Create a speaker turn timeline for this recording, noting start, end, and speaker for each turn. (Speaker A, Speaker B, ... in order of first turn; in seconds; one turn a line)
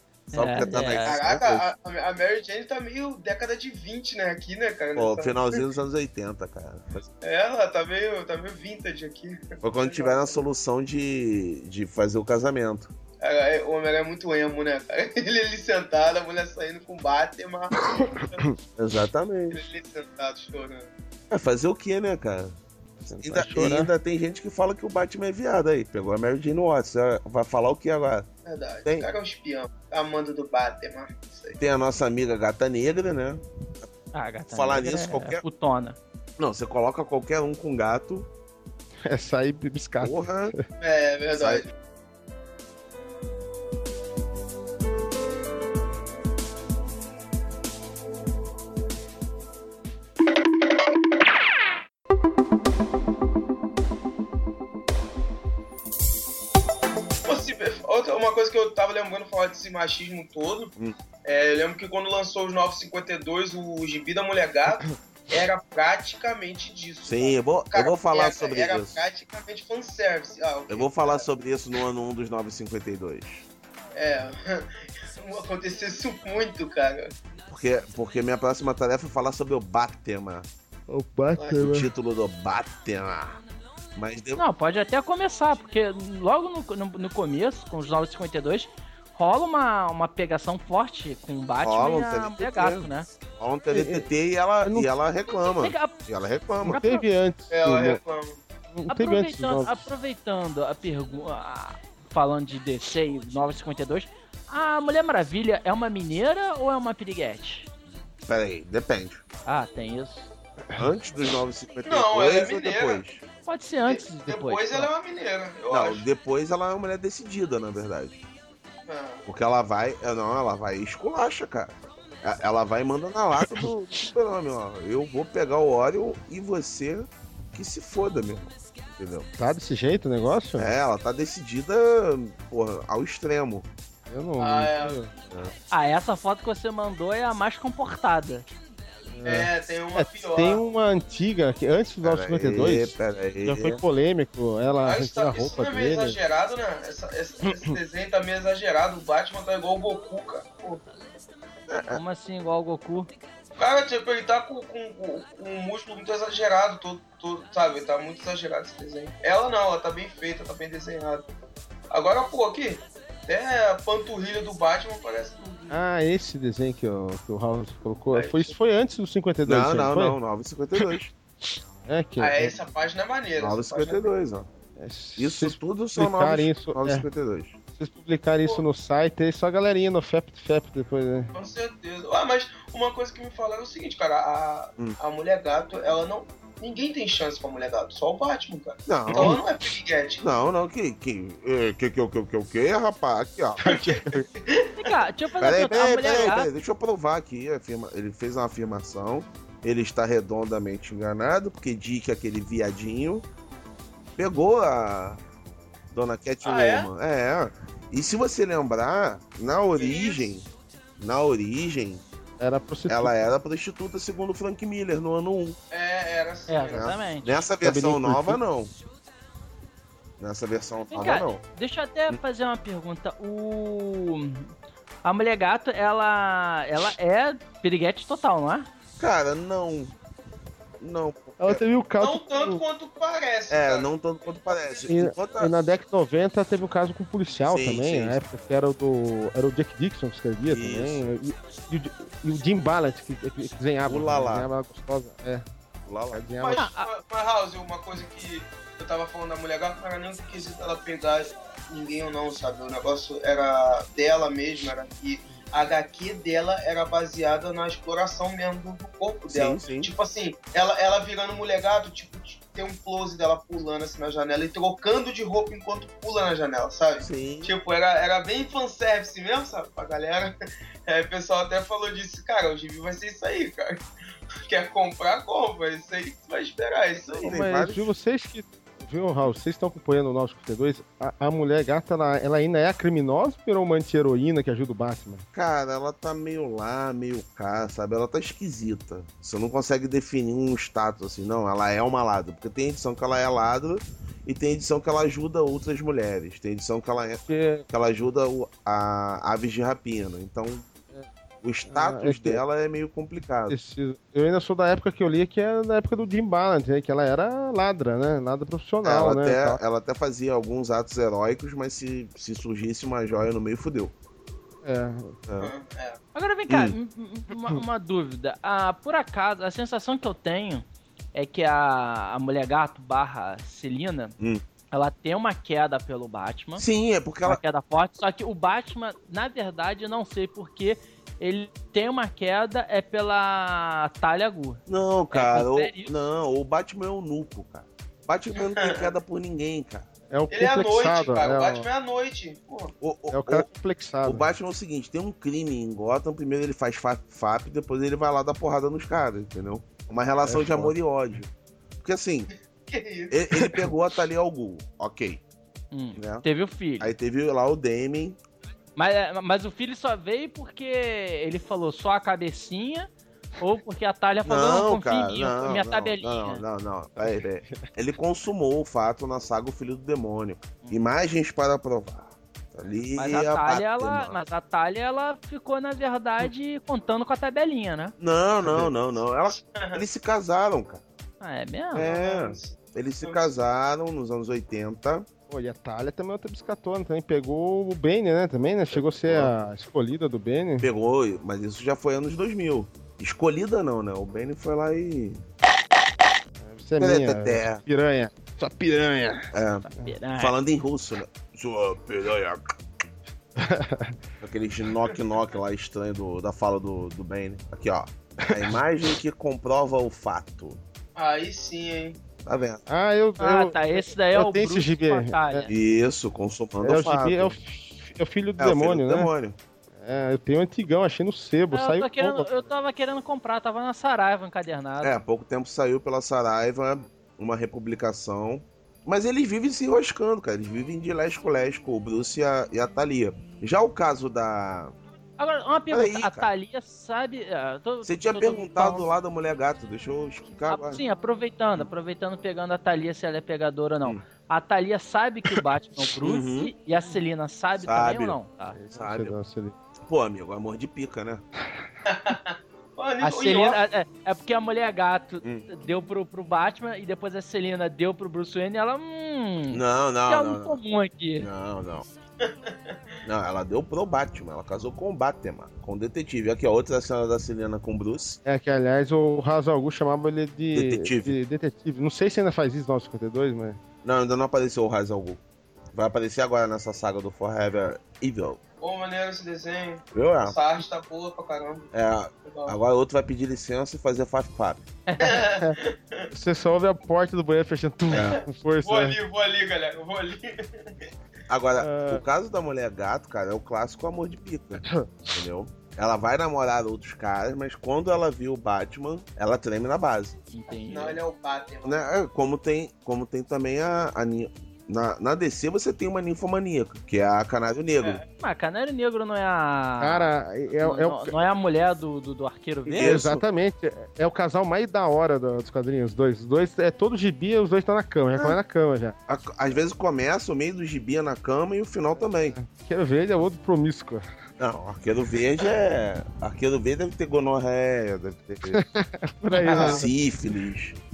Speaker A: 0.3-1.1
Speaker B: 0.3-1.7
Speaker C: 1.1-5.6
Speaker B: 5.0-7.1
Speaker C: 7.2-10.4
Speaker B: 9.6-12.9
Speaker C: 13.2-18.4
Speaker D: 18.0-18.5
Speaker B: 18.8-19.6
Speaker C: 19.5-20.9
Speaker B: 21.3-22.6
Speaker D: 23.0-23.9
Speaker B: 23.2-28.3
Speaker C: 28.5-31.6
Speaker B: 31.6-33.9
Speaker A: 34.1-36.0
Speaker B: 34.5-35.4
Speaker B: 36.4-38.3
Speaker D: 39.0-40.6
Speaker B: 40.0-40.5
Speaker C: 40.8-41.7
Speaker B: 41.3-41.7
Speaker C: 57.3-60.7
Speaker C: 61.2-71.2
Speaker B: 67.0-69.1
Speaker B: 70.7-73.5
Speaker C: 73.9-77.1
Speaker B: 77.5-80.5
Speaker D: 80.9-81.9
Speaker B: 81.5-83.4
Speaker B: 84.0-84.4
Speaker A: 84.4-93.1
Speaker B: 91.6-96.8
Speaker D: 93.7-94.1
Speaker D: 94.6-94.9
Speaker A: 95.5-96.0
Speaker D: 96.6-98.0
Speaker A: 96.7-97.0
Speaker C: 97.5-98.4
Speaker D: 98.7-99.9
Speaker A: 98.9-107.7
Speaker B: 108.3-109.2
Speaker A: 109.5-110.3
Speaker B: 110.8-113.2
Speaker C: 111.9-113.0
Speaker A: 113.5-114.9
Speaker C: 113.9-116.0
Speaker B: 115.7-118.2
Speaker C: 118.9-119.2
Speaker B: 119.3-129.3
Speaker D: 129.4-130.7
Speaker B: 130.6-133.7
Speaker D: 134.1-135.1
Speaker C: 134.4-135.0
Speaker A: 135.7-138.5
Speaker D: 139.1-146.2
Speaker C: 139.2-140.6
Speaker B: 142.0-143.8
Speaker C: 144.8-150.8
Speaker B: 151.7-152.0
Speaker A: 151.9-153.1
Speaker C: 153.6-161.3
Speaker C: 161.9-165.8
Speaker D: 165.7-170.2
Speaker C: 168.1-168.5
Speaker B: 169.5-171.1
Speaker D: 171.8-172.5
Speaker C: 172.2-174.1
Speaker B: 173.4-174.5
Speaker D: 174.8-177.1
Speaker B: 175.2-177.6
Speaker D: 177.8-181.3
Speaker C: 181.3-190.2
Speaker B: 188.9-189.4
Speaker D: 189.1-189.4
Speaker B: 190.2-193.7
Speaker D: 193.6-194.2
Speaker C: 193.7-194.9
Speaker A: 194.8-196.5
Speaker B: 195.4-203.3
Speaker B: 204.2-205.2
Speaker B: 205.9-212.0
Speaker C: 206.4-206.9
Speaker C: 209.8-210.3
Speaker D: 212.4-213.2
Speaker B: 212.9-215.6
Speaker C: 215.7-216.9
Speaker A: 216.5-217.4
Speaker B: 216.7-218.7
Speaker D: 217.6-218.4
Speaker B: 220.2-221.4
Speaker A: 220.9-224.5
Speaker A: 225.0-228.7
Speaker B: 229.0-229.9
Speaker B: 230.8-231.6
Speaker D: 231.4-232.6
Speaker C: 232.0-234.9
Speaker B: 233.5-235.5
Speaker D: 234.9-245.4
Speaker B: 237.5-238.2
Speaker B: 240.5-241.0
Speaker B: 243.9-244.5
Speaker B: 245.9-246.2
Speaker D: 246.1-246.7
Speaker C: 246.4-270.3
Speaker A: 246.6-246.9
Speaker B: 259.3-259.9
Speaker B: 267.0-267.5
Speaker C: 270.9-273.9
Speaker C: 274.5-277.3
Speaker B: 277.2-277.9
Speaker D: 277.2-285.2
Speaker B: 285.3-300.7
Speaker D: 297.3-297.7
Speaker B: 301.4-303.6
Speaker D: 301.7-302.4
Speaker D: 303.5-309.6
Speaker B: 308.8-313.9
Speaker D: 314.6-315.2
Speaker C: 315.4-316.0
Speaker A: 316.1-324.1
Speaker B: 316.5-316.8
Speaker A: 324.7-326.6
Speaker B: 326.6-327.4
Speaker A: 327.2-334.6
Speaker B: 334.7-339.9
Speaker A: 335.1-335.9
Speaker C: 338.4-338.9
Speaker D: 340.1-341.7
Speaker C: 340.3-342.7
Speaker B: 342.8-343.5
Speaker D: 343.1-344.3
Speaker B: 344.0-351.3
Speaker D: 350.2-350.8
Speaker B: 351.8-352.3
Speaker C: 352.7-353.7
Speaker B: 353.1-355.2
Speaker A: 355.7-356.9
Speaker B: 356.0-356.3
Speaker B: 356.8-358.2
Speaker A: 358.8-362.9
Speaker A: 363.4-366.4
Speaker B: 364.3-374.2
Speaker D: 367.0-367.6
Speaker A: 373.0-377.9
Speaker B: 378.0-380.8
Speaker C: 379.3-379.8
Speaker A: 381.2-381.9
Speaker B: 381.7-385.1
Speaker C: 381.8-383.4
Speaker D: 385.3-390.7
Speaker B: 388.7-389.3
Speaker B: 390.6-395.2
Speaker D: 396.4-399.9
Speaker B: 396.8-397.6
Speaker B: 399.3-399.7
Speaker A: 399.6-400.3
Speaker B: 400.2-402.4
Speaker D: 403.4-404.0
Speaker B: 404.2-410.6
Speaker C: 411.0-412.0
Speaker B: 412.2-412.6
Speaker D: 412.7-415.5
Speaker A: 413.2-415.5
Speaker B: 415.5-417.4
Speaker D: 416.6-419.1
Speaker B: 418.4-419.4
Speaker D: 419.7-422.5
Speaker A: 421.5-425.0
Speaker B: 424.8-434.7
Speaker A: 435.2-438.9
Speaker B: 435.7-436.3
Speaker B: 437.9-440.8
Speaker A: 440.5-448.6
Speaker B: 446.0-446.5
Speaker B: 447.6-449.1
Speaker D: 448.7-449.6
Speaker B: 449.9-451.2
Speaker C: 451.9-453.6
Speaker A: 453.0-461.3
Speaker B: 459.5-460.6
Speaker B: 461.2-461.9
Speaker C: 462.2-462.8
Speaker B: 463.0-468.2
Speaker D: 468.2-473.6
Speaker B: 470.5-471.1
Speaker B: 473.8-475.2
Speaker B: 475.7-478.4
Speaker C: 478.6-481.7
Speaker B: 479.9-480.4
Speaker B: 481.7-484.6
Speaker C: 482.3-482.6
Speaker A: 484.9-485.2
Speaker C: 485.0-486.1
Speaker D: 486.1-489.0
Speaker B: 487.9-488.2
Speaker C: 487.9-490.8
Speaker B: 491.3-500.2
Speaker D: 491.6-492.0
Speaker A: 500.3-501.0
Speaker C: 500.5-501.8
Speaker B: 501.6-508.0
Speaker A: 508.2-513.1
Speaker D: 509.8-511.2
Speaker D: 512.7-519.0
Speaker B: 512.7-513.2
Speaker B: 519.1-522.4
Speaker D: 522.3-524.0
Speaker B: 524.4-528.6
Speaker D: 528.5-529.9
Speaker B: 529.5-530.8
Speaker C: 529.5-529.9